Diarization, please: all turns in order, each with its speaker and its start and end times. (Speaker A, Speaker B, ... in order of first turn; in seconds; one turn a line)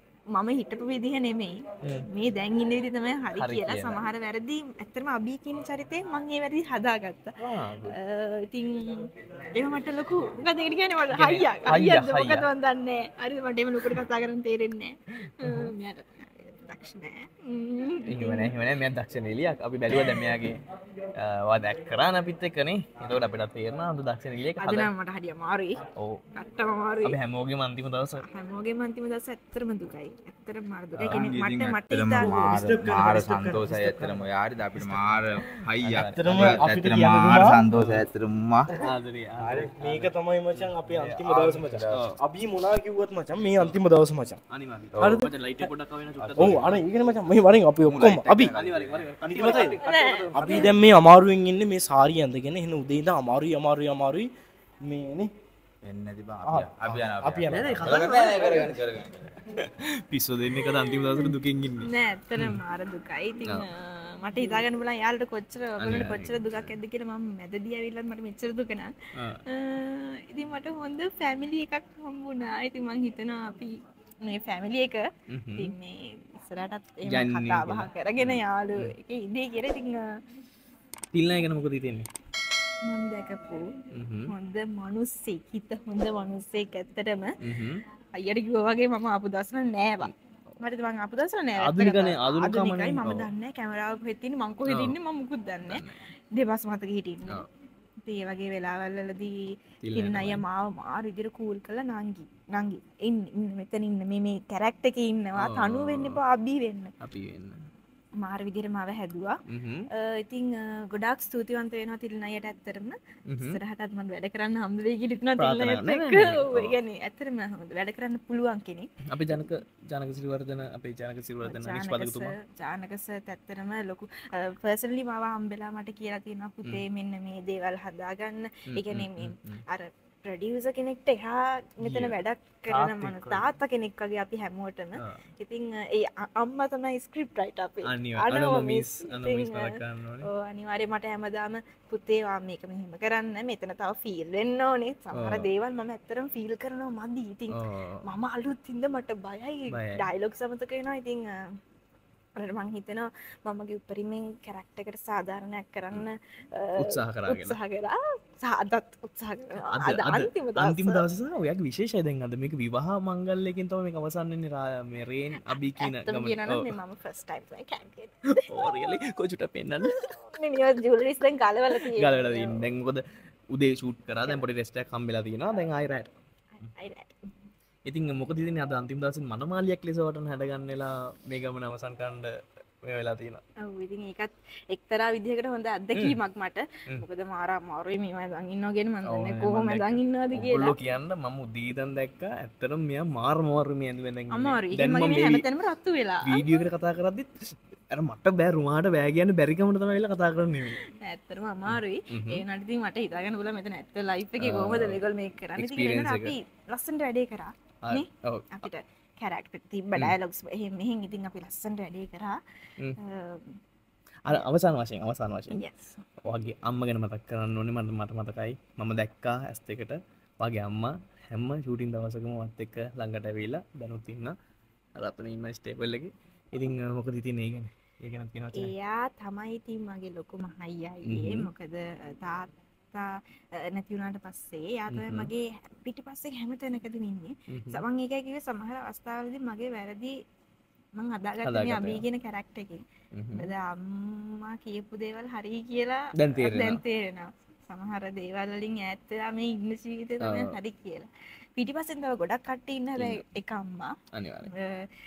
Speaker A: 0.3-7.3
Speaker B: 3.4-4.0
Speaker B: 7.4-8.0
Speaker A: 7.9-18.5
Speaker B: 11.1-12.5
Speaker B: 15.4-15.7
Speaker B: 18.0-20.6
Speaker B: 21.1-24.9
Speaker A: 24.6-25.8
Speaker B: 25.9-26.2
Speaker A: 26.3-27.2
Speaker B: 27.0-28.2
Speaker A: 28.2-32.6
Speaker B: 30.9-31.4
Speaker C: 31.1-38.7
Speaker D: 32.2-34.3
Speaker B: 34.7-36.6
Speaker D: 35.9-37.6
Speaker B: 37.7-38.1
Speaker B: 38.8-42.2
Speaker D: 39.4-44.4
Speaker B: 43.5-43.8
Speaker B: 44.5-46.9
Speaker D: 45.0-45.7
Speaker C: 46.2-46.8
Speaker D: 46.4-48.5
Speaker C: 47.8-49.1
Speaker B: 48.5-50.8
Speaker D: 49.3-49.8
Speaker A: 49.6-50.7
Speaker D: 50.3-54.3
Speaker D: 54.8-55.3
Speaker C: 55.8-59.1
Speaker D: 56.4-58.1
Speaker B: 57.5-58.8
Speaker B: 59.5-62.6
Speaker A: 60.6-68.9
Speaker B: 65.8-66.7
Speaker A: 69.5-80.0
Speaker B: 75.3-75.7
Speaker B: 77.0-78.9
Speaker B: 81.1-82.1
Speaker A: 82.8-83.7
Speaker B: 83.9-84.3
Speaker A: 84.3-87.3
Speaker B: 87.4-87.8
Speaker A: 88.2-95.8
Speaker B: 91.6-93.3
Speaker B: 94.7-95.0
Speaker B: 95.7-96.0
Speaker A: 96.3-97.5
Speaker A: 98.0-99.3
Speaker B: 99.8-100.4
Speaker A: 99.9-106.9
Speaker B: 105.4-106.2
Speaker B: 107.0-107.7
Speaker A: 108.2-109.4
Speaker B: 109.5-109.9
Speaker A: 109.9-118.9
Speaker B: 113.3-113.6
Speaker B: 115.4-116.8
Speaker B: 119.1-122.3
Speaker A: 121.4-151.3
Speaker B: 128.7-129.6
Speaker B: 131.8-132.2
Speaker B: 132.7-133.5
Speaker B: 137.8-140.3
Speaker B: 145.1-145.5
Speaker B: 147.5-148.0
Speaker B: 149.7-150.0
Speaker A: 152.3-161.0
Speaker B: 156.8-157.6
Speaker B: 159.7-166.7
Speaker A: 165.5-168.7
Speaker B: 168.3-170.1
Speaker A: 169.9-172.6
Speaker B: 171.8-176.1
Speaker A: 176.6-177.1
Speaker B: 177.8-182.3
Speaker B: 182.8-183.4
Speaker A: 183.6-190.8
Speaker B: 189.0-195.4
Speaker A: 194.3-196.6
Speaker B: 196.2-200.8
Speaker A: 200.8-212.4
Speaker B: 201.7-202.4
Speaker B: 204.4-205.0
Speaker B: 205.6-206.3
Speaker B: 207.8-208.7
Speaker A: 213.0-213.5
Speaker B: 214.2-215.6
Speaker A: 215.5-216.0
Speaker B: 216.2-224.3
Speaker B: 224.9-228.7
Speaker A: 228.5-240.1
Speaker B: 231.0-231.5
Speaker B: 234.9-235.3
Speaker B: 237.5-237.8
Speaker A: 240.9-254.9
Speaker B: 241.4-242.0
Speaker B: 243.1-243.5
Speaker B: 246.1-246.8
Speaker B: 250.2-250.5
Speaker B: 253.0-253.2
Speaker B: 254.1-254.5